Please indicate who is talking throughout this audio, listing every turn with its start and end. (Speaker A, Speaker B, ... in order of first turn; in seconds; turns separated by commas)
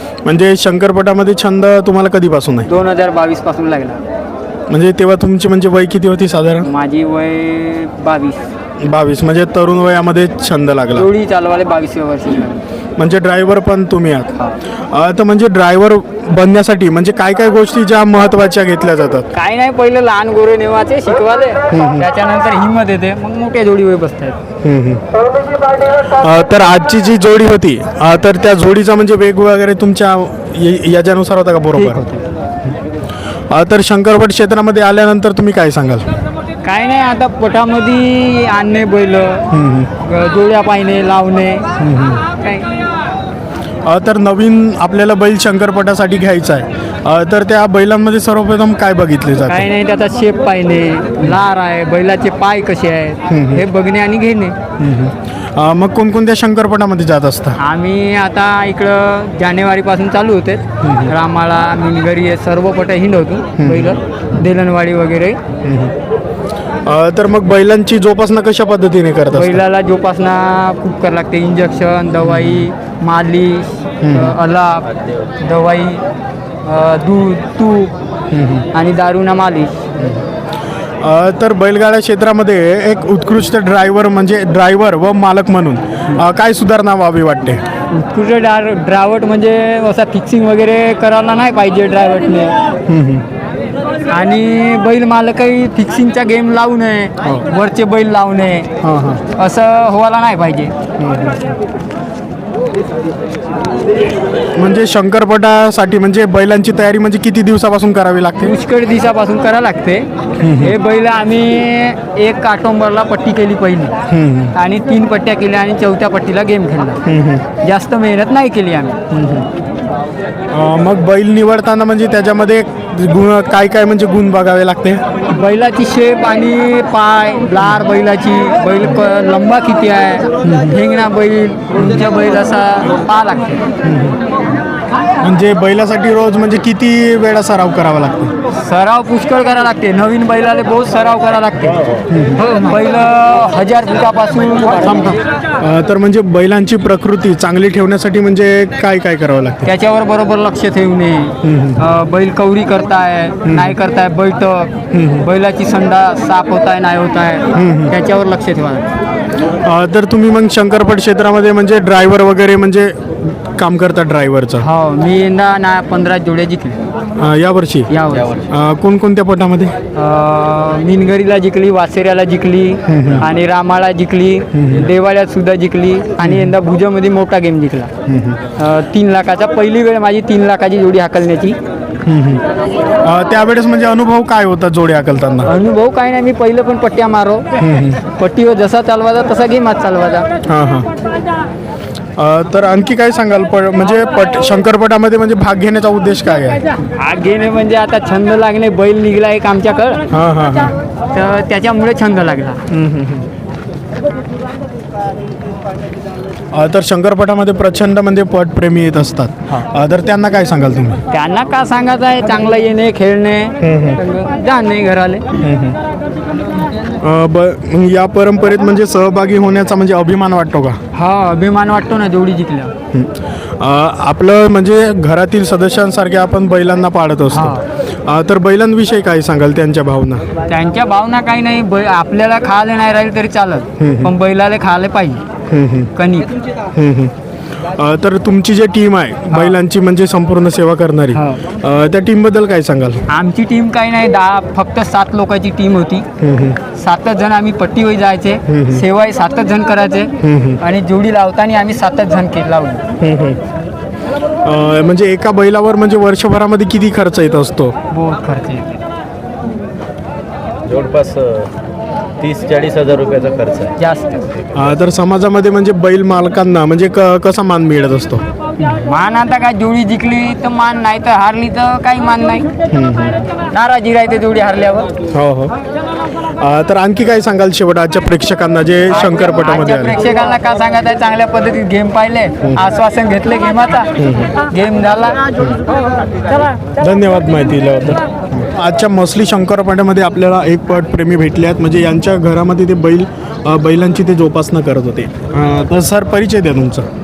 Speaker A: 0.2-2.7, Speaker B: 2.6-4.0, Speaker A: 4.7-6.7, Speaker B: 6.6-8.5, Speaker A: 8.8-11.1, Speaker B: 10.9-12.6, Speaker A: 13.0-14.4, Speaker A: 14.9-19.3, Speaker B: 19.3-24.4, Speaker A: 21.7-22.1, Speaker A: 24.6-25.0, Speaker A: 26.1-32.0, Speaker B: 31.7-32.2, Speaker A: 33.5-36.1, Speaker B: 36.6-41.7, Speaker A: 39.5-39.9, Speaker A: 41.8-42.2, Speaker B: 42.4-42.7, Speaker A: 43.9-49.7, Speaker B: 49.5-54.5, Speaker A: 53.3-53.6, Speaker A: 54.8-57.6, Speaker B: 57.6-65.4, Speaker A: 60.8-61.1, Speaker A: 63.6-64.0, Speaker A: 65.6-65.9, Speaker A: 66.9-69.6, Speaker B: 69.3-74.9, Speaker A: 72.2-72.7, Speaker A: 74.0-74.4, Speaker B: 75.4-76.0, Speaker B: 76.6-77.9, Speaker A: 78.3-78.7, Speaker B: 78.7-79.8, Speaker A: 81.0-87.6, Speaker B: 87.9-92.6, Speaker A: 92.9-93.2, Speaker B: 94.1-98.7, Speaker A: 98.8-99.2, Speaker B: 99.3-100.7, Speaker A: 101.0-101.4, Speaker A: 104.5-108.6, Speaker B: 108.4-114.0, Speaker A: 110.4-110.7, Speaker A: 114.1-114.5, Speaker B: 114.5-117.0, Speaker A: 117.0-117.5, Speaker B: 117.6-119.0, Speaker A: 119.1-119.4, Speaker A: 120.5-125.0, Speaker B: 125.3-133.6, Speaker A: 130.4-130.8, Speaker A: 133.8-134.2, Speaker A: 135.2-138.3, Speaker B: 138.5-145.2, Speaker A: 142.1-142.4, Speaker A: 145.6-149.7, Speaker B: 149.6-158.9, Speaker A: 151.4-151.8, Speaker A: 153.4-153.8, Speaker A: 154.9-155.3, Speaker A: 157.5-157.9, Speaker A: 159.6-164.7, Speaker B: 164.6-166.8, Speaker A: 167.2-167.9, Speaker B: 167.9-168.3, Speaker C: 168.1-168.5, Speaker A: 168.5-169.7, Speaker B: 169.9-177.9, Speaker A: 172.9-173.2, Speaker A: 174.5-174.9, Speaker A: 176.2-176.5, Speaker A: 178.1-178.4, Speaker B: 178.6-181.6, Speaker A: 182.1-182.4, Speaker A: 183.0-185.5, Speaker B: 185.4-187.5, Speaker A: 187.6-188.0, Speaker B: 188.1-190.3, Speaker A: 190.4-190.9, Speaker A: 192.2-196.6, Speaker B: 196.9-200.0, Speaker A: 200.1-200.8, Speaker B: 201.1-202.6, Speaker A: 202.7-203.3, Speaker A: 206.5-211.0, Speaker B: 211.1-215.2, Speaker A: 213.6-214.0, Speaker A: 215.4-215.8, Speaker A: 217.0-220.8, Speaker B: 220.9-222.7, Speaker A: 222.9-230.3, Speaker B: 227.3-227.6, Speaker B: 230.5-235.2, Speaker A: 233.8-234.1, Speaker A: 235.5-235.9, Speaker B: 235.9-236.3, Speaker A: 236.7-237.1, Speaker A: 237.7-243.0, Speaker B: 241.1-241.4, Speaker B: 243.1-246.1, Speaker A: 246.2-246.6, Speaker B: 246.7-252.8, Speaker A: 248.5-248.8, Speaker A: 250.2-250.6, Speaker A: 253.0-253.4, Speaker A: 254.4-257.7, Speaker B: 257.9-258.8, Speaker C: 260.7-261.5, Speaker C: 262.2-263.8, Speaker B: 263.8-264.2, Speaker A: 264.6-268.2, Speaker B: 268.6-272.5, Speaker A: 272.7-273.3, Speaker B: 273.5-274.9, Speaker A: 275.1-275.5, Speaker A: 276.4-280.0, Speaker B: 278.9-285.2, Speaker A: 284.0-284.3, Speaker A: 286.8-296.9